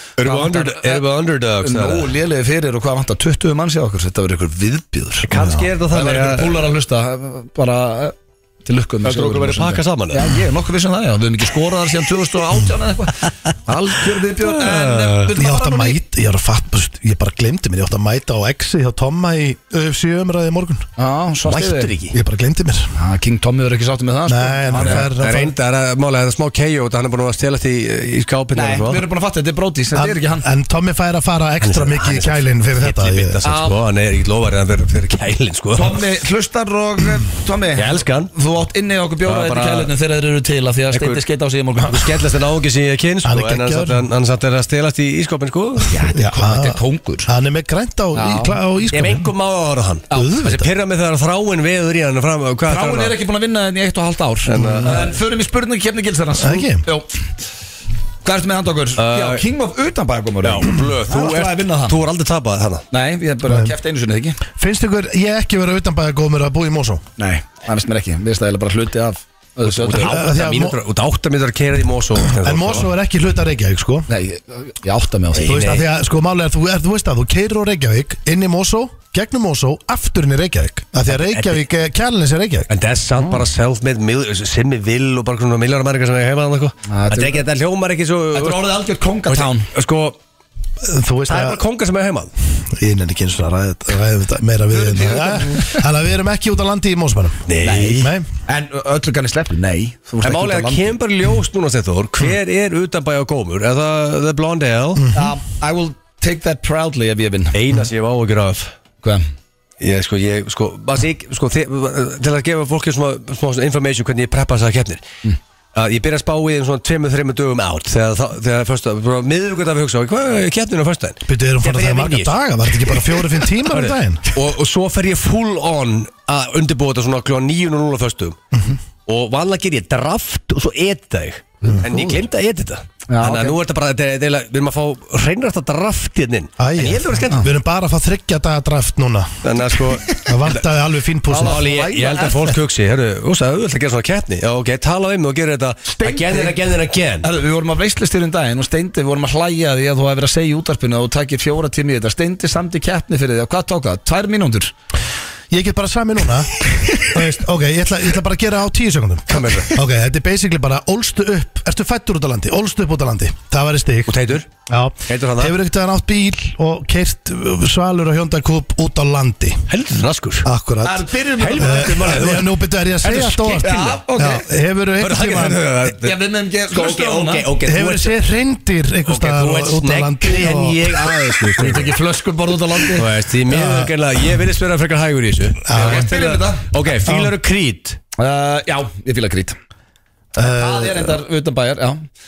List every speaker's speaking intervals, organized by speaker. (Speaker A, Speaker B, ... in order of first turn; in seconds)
Speaker A: 0.2-1.1, 1.6-5.3, 5.9-16.0, 21.0-21.9, 22.9-25.1, 28.5-30.5, 33.4-33.8, 35.7-42.1, 45.9-47.3, 48.1-48.6, 50.1-50.4, 52.7-57.1, 58.2-62.0, 62.9-64.4, 67.2-70.3, 74.1-75.7, 86.9-87.5, 88.3-89.7, 94.7-95.8, 97.6-101.0, 105.1-107.6, 133.1-133.6, 141.3-142.6, 145.9-146.6, 147.2-154.7, 170.8-172.2, 173.6-174.5, 176.0-177.5, 181.6-183.1, 185.7-186.7, 188.2-189.6, 190.6-192.1
Speaker B: 0.2-2.1, 5.3-6.7, 9.0-10.3, 14.4-15.3, 21.5-22.1, 24.8-29.1, 31.6-36.0, 37.8-38.3, 39.2-39.9, 40.9-41.2, 41.8-46.0, 48.9-53.2, 54.5-55.1, 59.0-59.5, 60.4-62.9, 69.6-72.9, 75.4-75.9, 81.1-81.6, 82.7-88.8, 89.3-90.2, 91.3-92.3, 97.5-98.1, 100.2-105.1, 107.5-108.7, 109.8-115.0, 115.8-128.5, 129.1-137.5, 139.4-140.6, 141.4-147.3, 159.3-159.7, 164.1-164.5, 165.1-165.6, 169.7-170.5, 171.4-174.0, 175.0-176.2, 176.7-178.2, 179.1-181.9, 182.9-188.0
Speaker C: 5.3-5.7, 15.3-20.9, 22.1-22.9, 24.3-25.5, 29.9-33.4, 43.2-44.0, 46.1-49.3, 50.1-50.7, 54.5-55.1, 56.4-56.8, 63.5-63.7, 64.6-67.0, 70.0-70.8, 72.2-74.1, 75.4-82.7, 90.8-91.6, 92.7-98.3, 105.0-105.3, 121.3-124.4, 131.7-132.2, 136.6-139.5, 140.2-141.6, 155.5-164.2, 164.7-169.7, 170.4-175.6, 177.6-181.7, 183.5-183.9, 185.6-186.1, 187.1-187.3, 190.3-191.2